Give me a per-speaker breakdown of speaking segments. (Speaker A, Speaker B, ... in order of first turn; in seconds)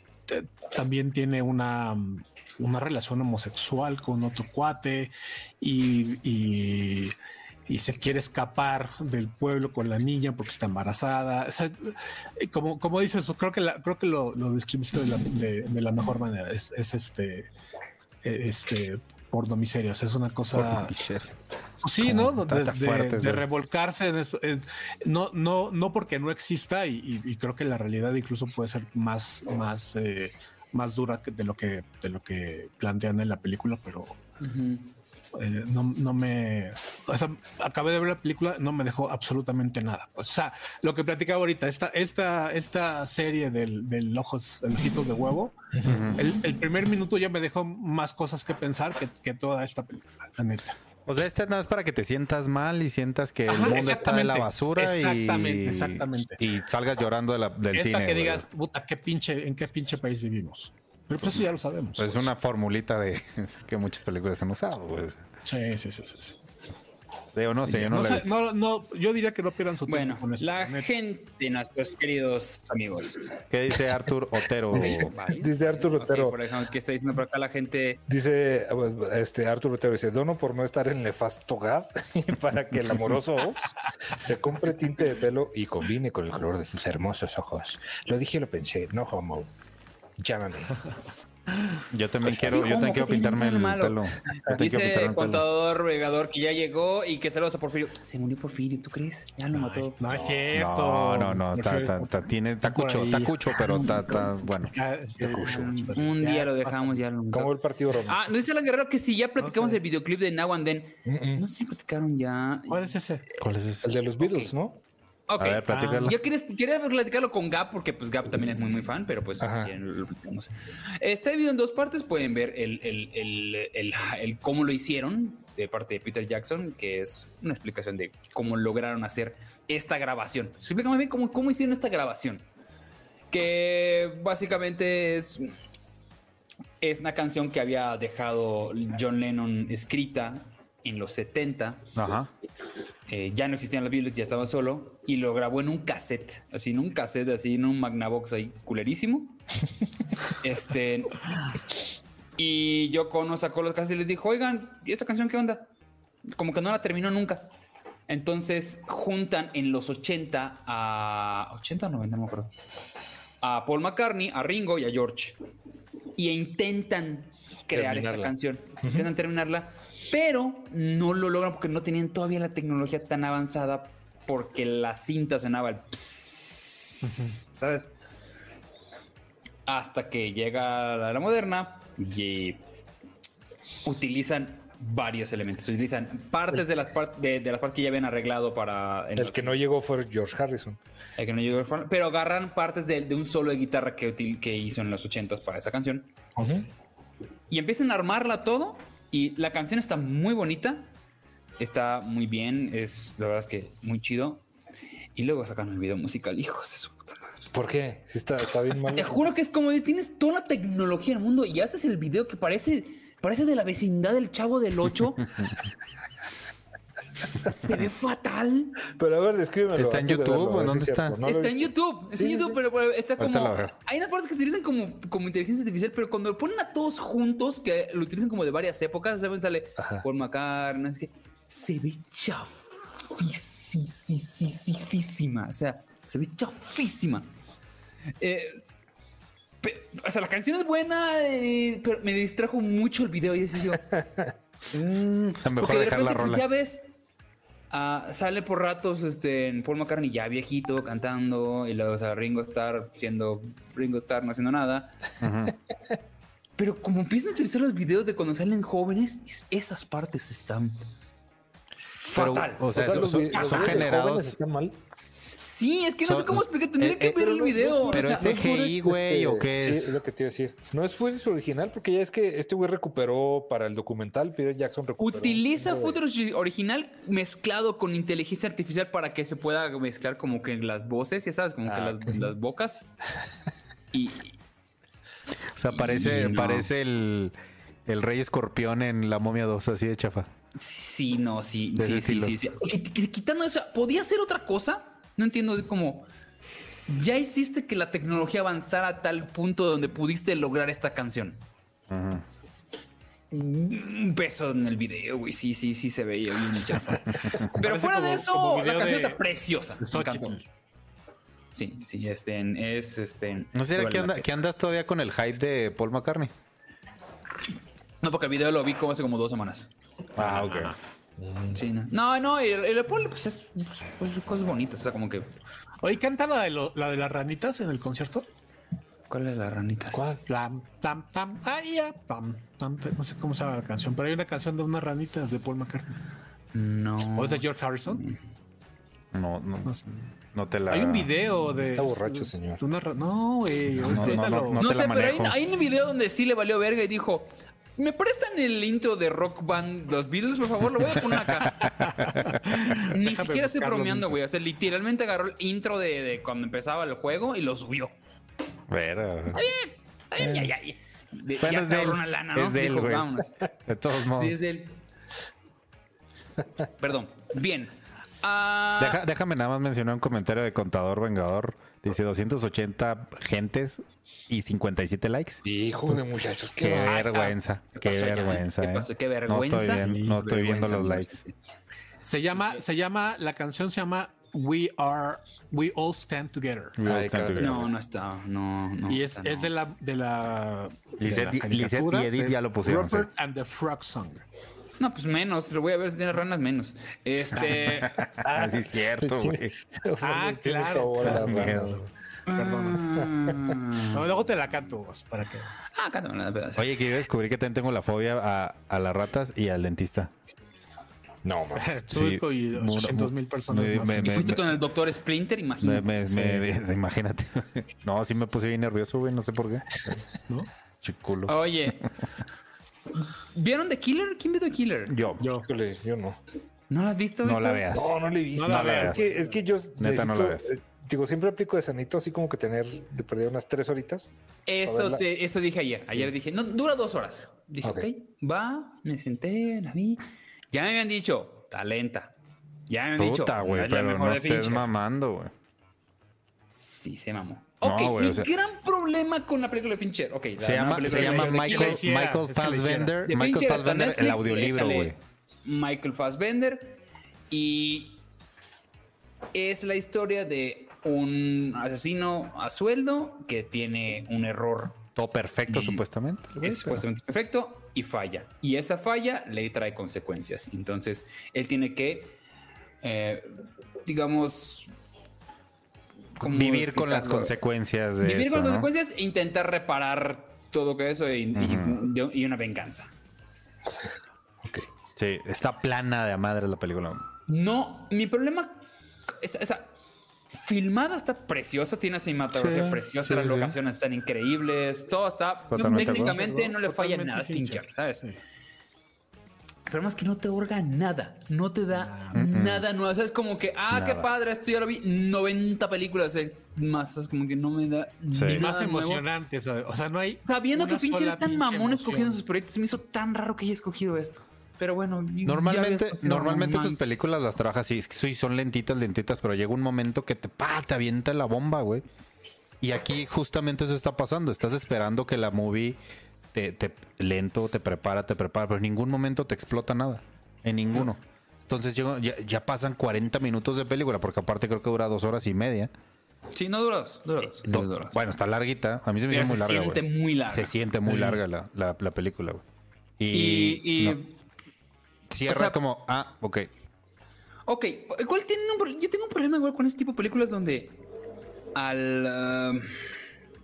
Speaker A: 0.3-7.1, 7.7-17.5, 18.2-20.9, 21.8-34.2, 35.3-50.8, 53.5-56.4, 57.7-62.3, 65.4-66.4, 67.7-70.9, 99.5-107.0, 109.4-109.8, 112.7-113.2, 115.7-116.2, 177.0-177.4, 307.5-309.2, 309.8-310.4, 320.2-320.8, 325.8-328.3, 330.2-335.9, 337.1-338.0, 340.7-344.6, 351.9-354.2, 376.8-377.4, 379.7-380.2, 382.0-386.8, 388.9-394.2, 400.0-401.8, 402.3-403.0, 403.9-405.5, 411.6-414.4, 416.1-416.4, 425.2-425.5, 428.3-429.4, 450.8-452.9, 495.6-498.2, 501.8-502.2, 508.2-512.2, 540.9-541.2
Speaker B: 20.5-21.3, 22.0-23.4, 45.8-46.2, 51.1-58.5, 62.0-65.2, 67.3-68.3, 73.5-75.1, 91.9-95.5, 100.5-104.8, 113.4-113.9, 115.4-116.2, 141.9-142.3, 219.8-221.2, 223.2-223.7, 245.4-246.4, 255.2-255.6, 262.1-264.4, 266.0-267.1, 267.9-270.0, 285.5-287.3, 287.9-290.3, 291.8-292.4, 301.9-302.2, 313.5-316.3, 320.1-320.8, 339.1-339.8, 340.3-341.1, 343.8-345.4, 358.7-359.4, 361.4-364.4, 368.8-375.4, 376.6-381.2, 386.8-387.6, 391.0-393.1, 397.5-399.5, 401.0-401.7, 406.6-410.1, 411.9-414.5, 415.6-419.9, 420.8-421.4, 424.9-425.2, 427.2-429.1, 429.8-430.5, 443.0-445.3, 447.6-448.3, 450.4-454.9, 464.9-466.9, 476.2-478.7, 481.4-481.8, 485.0-487.1, 492.3-493.6, 495.5-496.2, 502.1-502.6, 503.7-504.1, 508.1-508.5, 515.2-521.8, 522.6-525.8, 526.3-535.7, 537.5-542.4, 543.0-544.0, 545.1-546.5
Speaker C: 34.4-34.9, 69.9-73.3, 74.8-78.0, 92.4-100.0, 103.6-104.1, 105.4-112.9, 114.2-114.5, 115.3-132.4, 133.3-135.5, 136.8-141.9, 143.1-149.4, 150.3-151.3, 152.4-155.7, 156.3-157.5, 158.1-162.5, 163.4-165.4, 166.2-177.9, 179.7-182.6, 183.8-189.6, 191.2-196.1, 197.5-200.9, 201.6-204.4, 205.1-207.3, 208.9-215.3, 217.4-218.8, 221.2-237.3, 238.2-238.6, 239.6-243.9, 244.7-246.9, 247.7-255.0, 256.6-260.9, 262.0-263.9, 265.4-268.5, 275.0-282.9, 283.9-284.4, 285.7-286.7, 290.5-296.1, 296.9-301.4, 303.3-310.4, 311.5-314.3, 318.0-319.7, 321.5-325.3, 329.1-330.0, 336.5-338.2, 343.9-352.1, 352.8-357.9, 359.3-363.4, 364.1-364.8, 366.8-369.0, 377.7-381.3, 387.4-389.5, 394.8-398.0, 402.3-404.0, 405.7-406.7, 414.0-416.3, 421.3-421.9, 423.0-424.9, 426.7-427.7, 434.5-442.1, 442.7-444.7, 446.6-451.8, 453.0-458.0, 459.3-464.9, 465.5-465.8, 466.4-472.2, 472.8-473.3, 473.9-474.7, 476.2-477.4, 478.0-482.9, 487.3-489.7, 490.3-498.0, 499.7-509.0, 510.2-516.8, 536.3-538.0, 539.1-540.5, 543.1-544.1, 545.2-545.6, 547.5-550.8, 551.5-552.9
Speaker D: 74.7-76.4, 78.1-89.5, 90.2-90.8, 92.2-92.7, 100.1-100.5, 105.2-105.7, 107.3-108.2, 111.0-111.4, 113.8-114.8, 119.4-119.7, 167.7-168.3, 189.2-190.8, 196.4-196.7, 207.5-209.3, 218.8-222.6, 229.8-230.1, 262.6-264.8, 267.0-276.0, 281.6-282.2, 321.2-321.6, 329.9-330.2, 341.6-342.6, 360.2-360.5, 375.4-377.0, 386.8-387.7, 398.0-401.9, 411.2-411.8, 425.2-426.2, 427.7-435.0